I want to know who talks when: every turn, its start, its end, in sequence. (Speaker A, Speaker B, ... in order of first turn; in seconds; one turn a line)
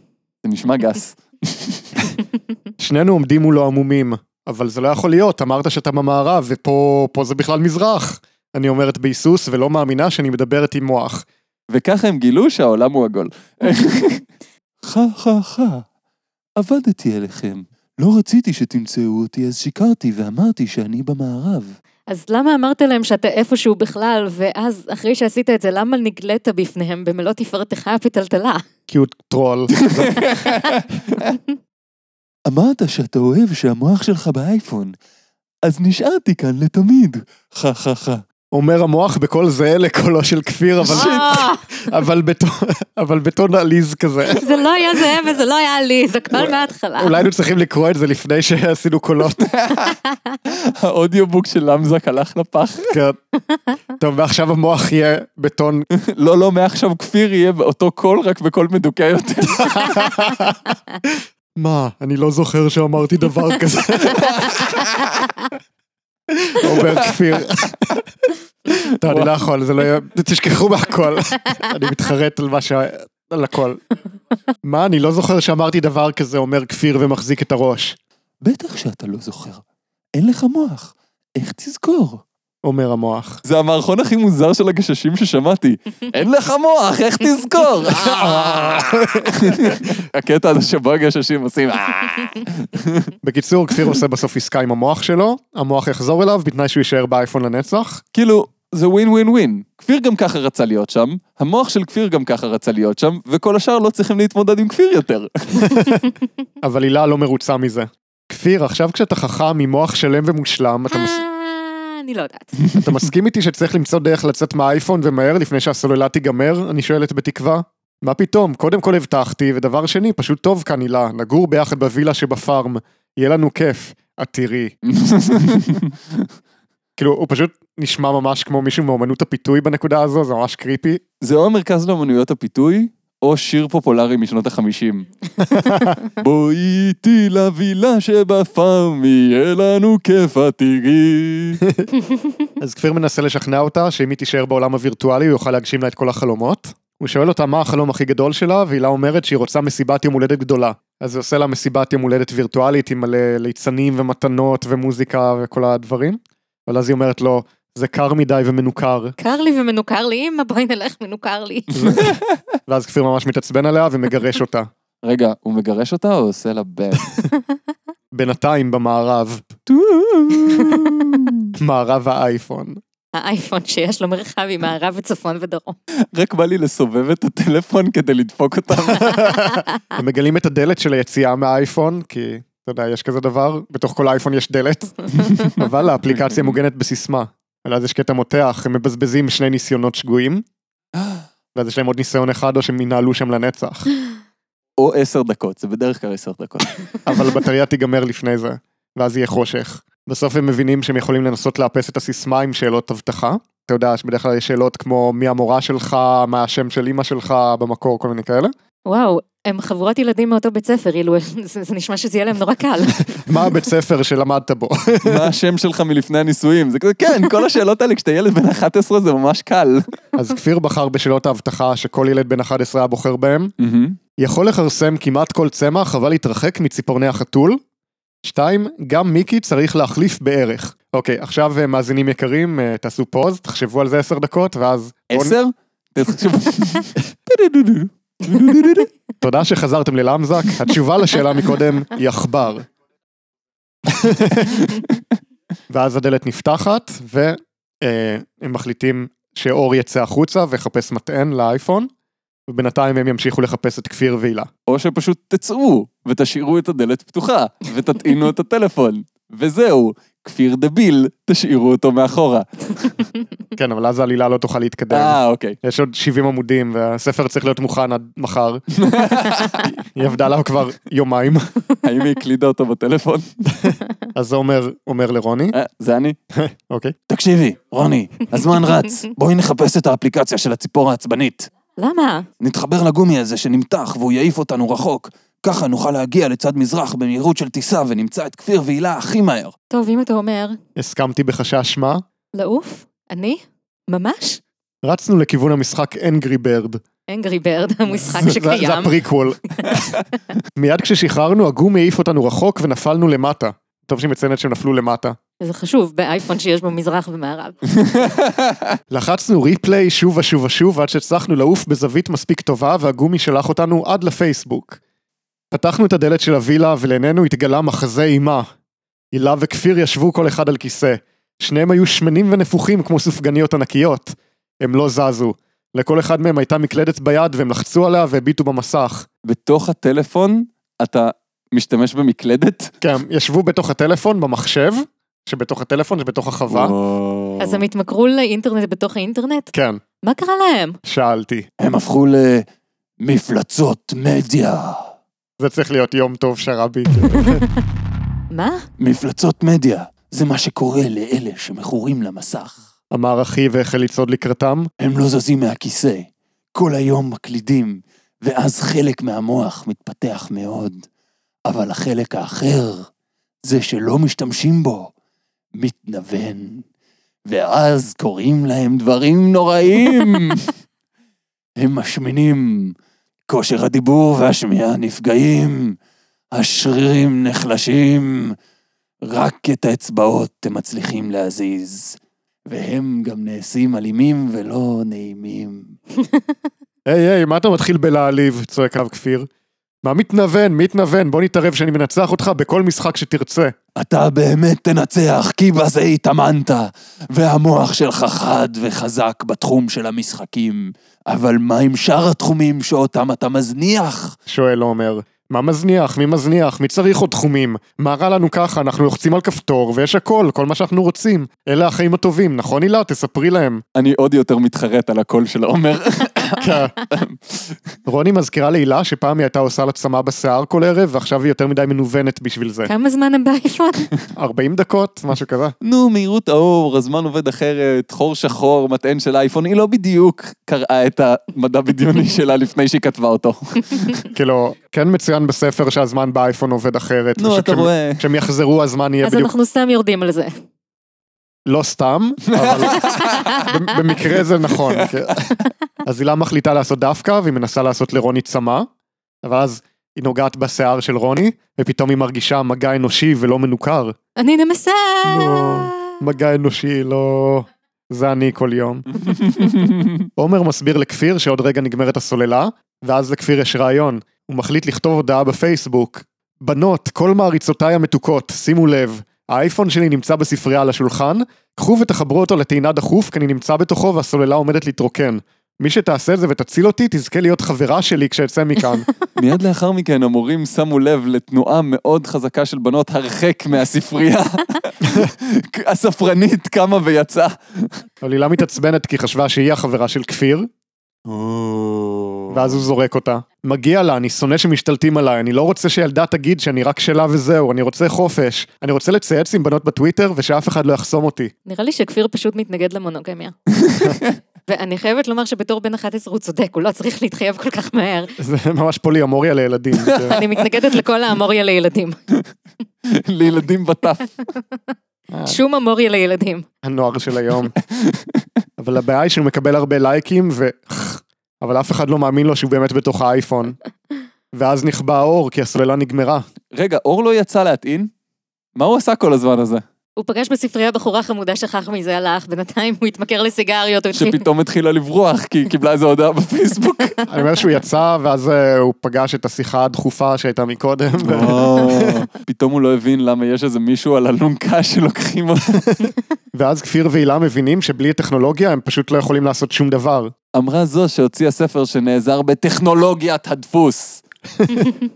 Speaker A: 0.4-1.9
Speaker B: 2.8-11.3
Speaker A: 11.7-14.2
Speaker A: 14.8-15.9
Speaker A: 16.6-21.8
Speaker C: 22.1-28.6
Speaker B: 28.9-30.3
Speaker A: 29.8-31.4
Speaker A: 32.5-35.0
Speaker A: 35.6-38.2
Speaker B: 38.5-44.5
Speaker A: 40.9-41.5
Speaker C: 40.9-41.6
Speaker C: 44.3-47.2
Speaker B: 46.4-49.5
Speaker A: 49.2-53.0
Speaker B: 52.9-53.2
Speaker B: 54.0-55.9
Speaker A: 56.0-60.1
Speaker B: 59.5-64.8
Speaker A: 64.2-64.8
Speaker B: 66.3-68.1
Speaker B: 69.0-73.8
Speaker A: 69.1-69.3
Speaker B: 74.6-78.0
Speaker A: 78.4-79.6
Speaker A: 80.2-82.2
Speaker B: 82.6-83.4
Speaker A: 83.4-93.1
Speaker B: 88.0-89.9
Speaker B: 93.2-98.0
Speaker A: 98.1-105.8
Speaker B: 105.6-106.0
Speaker B: 106.6-111.2
Speaker C: 110.9-112.6
Speaker B: 112.7-124.8
Speaker A: 124.9-126.3
Speaker B: 127.0-131.0
Speaker A: 131.2-135.1
Speaker B: 135.4-136.0
Speaker A: 136.1-141.6
Speaker B: 142.6-159.2
Speaker C: 159.2-162.0
Speaker B: 161.7-162.1
Speaker A: 161.9-162.4
Speaker B: 162.7-164.7
Speaker A: 165.0-167.1
Speaker B: 168.1-169.5
Speaker A: 169.7-171.5
Speaker B: 171.6-172.8
Speaker C: 173.1-175.8
Speaker A: 176.1-179.4
Speaker B: 178.9-190.4
Speaker B: 191.6-193.9
Speaker A: 194.8-196.7
Speaker B: 197.1-208.5
Speaker C: 208.9-213.2
Speaker B: 213.2-215.3
Speaker A: 215.1-219.8
Speaker B: 220.2-223.5
Speaker A: 223.6-224.0
Speaker B: 224.2-227.6
Speaker B: 228.2-235.4
Speaker A: 235.1-238.9
Speaker B: 239.2-242.7
Speaker B: 243.9-244.7
Speaker A: 244.7-245.0
Speaker B: 245.7-251.9
Speaker B: 252.5-254.5
Speaker A: 254.7-263.0
Speaker B: 263.6-268.6
Speaker A: 264.9-265.6
Speaker A: 268.8-269.7
Speaker B: 269.4-271.5
Speaker A: 271.8-273.3
Speaker B: 273.6-275.6
Speaker A: 275.5-276.2
Speaker B: 276.3-276.9
Speaker A: 277.1-281.5
Speaker C: 281.8-282.3
Speaker A: 282.4-289.6
Speaker C: 289.7-290.6
Speaker B: 290.8-292.0
Speaker C: 292.4-294.4
Speaker B: 294.8-296.8
Speaker C: 297.1-299.0
Speaker B: 298.1-299.9
Speaker B: 300.6-305.2
Speaker C: 305.4-307.8
Speaker A: 307.8-308.8
Speaker B: 308.9-314.8
Speaker B: 315.5-318.5
Speaker B: 319.1-329.1
Speaker A: 329.2-332.7
Speaker B: 332.8-336.8
Speaker A: 336.5-337.6
Speaker C: 337.4-339.5
Speaker B: 339.5-339.8
Speaker C: 340.0-340.8
Speaker B: 340.9-341.5
Speaker A: 341.6-342.5
Speaker A: 343.0-344.9
Speaker B: 345.4-347.4
Speaker C: 347.2-347.4
Speaker C: 348.3-348.7
Speaker A: 348.8-352.6
Speaker B: 352.9-354.7
Speaker A: 354.8-360.9
Speaker A: 361.5-362.9
Speaker A: 363.4-364.9
Speaker A: 365.5-366.7
Speaker A: 367.3-370.5
Speaker A: 371.6-372.8
Speaker A: 373.3-375.8
Speaker A: 376.3-378.4
Speaker A: 379.0-385.8
Speaker B: 386.9-389.3
Speaker B: 389.8-393.6
Speaker A: 393.8-404.2
Speaker B: 404.3-413.6
Speaker A: 413.8-417.6
Speaker B: 416.4-416.7
Speaker B: 417.9-422.7
Speaker C: 422.7-423.9
Speaker B: 424.1-425.5
Speaker A: 425.6-434.1
Speaker B: 434.1-439.3
Speaker A: 437.2-438.1
Speaker C: 439.0-440.3
Speaker B: 441.5-448.7
Speaker A: 442.3-443.4
Speaker C: 443.0-443.5
Speaker A: 444.7-445.1
Speaker B: 449.2-454.0
Speaker C: 454.2-455.9
Speaker B: 455.1-458.9
Speaker A: 459.1-460.1
Speaker B: 460.2-478.9
Speaker A: 479.2-487.8
Speaker B: 488.0-490.5
Speaker A: 491.1-492.6
Speaker B: 492.3-501.3
Speaker C: 501.5-503.4
Speaker A: 503.5-504.2
Speaker C: 504.5-508.1
Speaker B: 508.2-510.2
Speaker A: 509.8-510.3
Speaker C: 510.1-512.0
Speaker A: 512.9-514.2
Speaker B: 515.1-515.4
Speaker C: 515.3-516.5
Speaker B: 516.6-517.6
Speaker A: 517.6-518.3
Speaker B: 518.6-523.6
Speaker B: 524.3-526.2
Speaker A: 526.5-527.9
Speaker A: 528.5-529.6
Speaker C: 530.0-534.2
Speaker A: 533.9-537.0
Speaker B: 537.1-542.0
Speaker A: 541.0-545.6
Speaker B: 545.7-550.1
Speaker A: 550.3-554.0
Speaker B: 554.4-554.7